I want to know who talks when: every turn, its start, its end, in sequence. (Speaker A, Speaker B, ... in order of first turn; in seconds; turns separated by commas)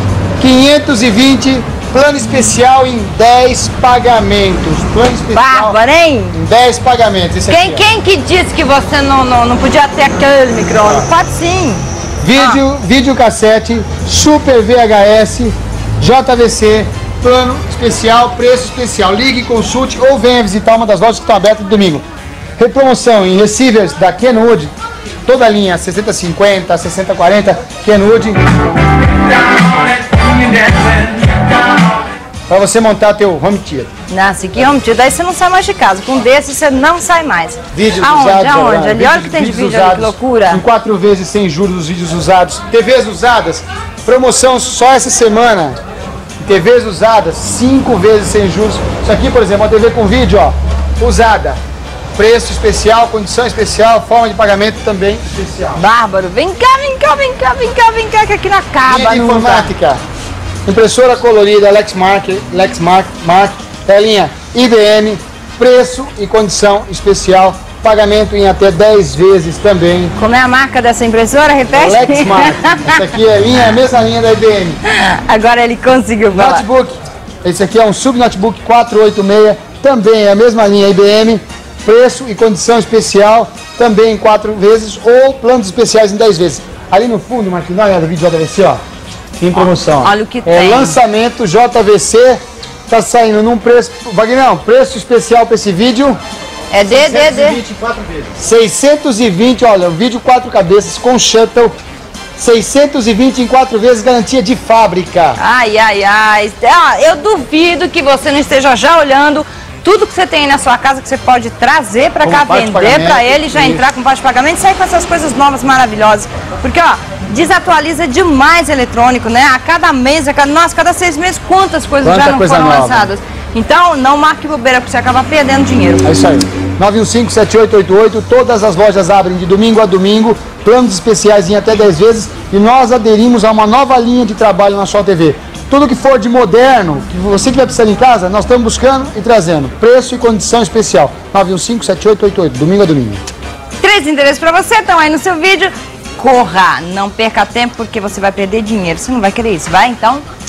Speaker A: 0.4-5.8, Speaker B: 5.3-6.3, Speaker A: 6.3-7.8, Speaker B: 7.5-11.8, Speaker A: 12.2-22.0, Speaker B: 12.3-12.6, Speaker A: 22.6-24.7, Speaker A: 25.2-28.5, Speaker A: 32.5-33.9, Speaker B: 34.1-40.6, Speaker A: 37.7-45.8, Speaker A: 46.4-51.6, Speaker A: 52.1-55.8, Speaker B: 55.7-59.7, Speaker A: 58.9-60.0, Speaker A: 60.6-70.1, Speaker B: 70.2-73.0, Speaker A: 71.7-74.8, Speaker B: 74.8-76.6, Speaker A: 76.3-88.8, Speaker A: 89.4-96.2, Speaker B: 89.6-91.0, Speaker B: 96.7-97.6, Speaker A: 96.8-101.7, Speaker A: 102.3-105.4, Speaker B: 105.4-126.0, Speaker A: 112.2-113.8, Speaker A: 122.0-123.1, Speaker A: 126.0-143.2, Speaker B: 143.8-150.2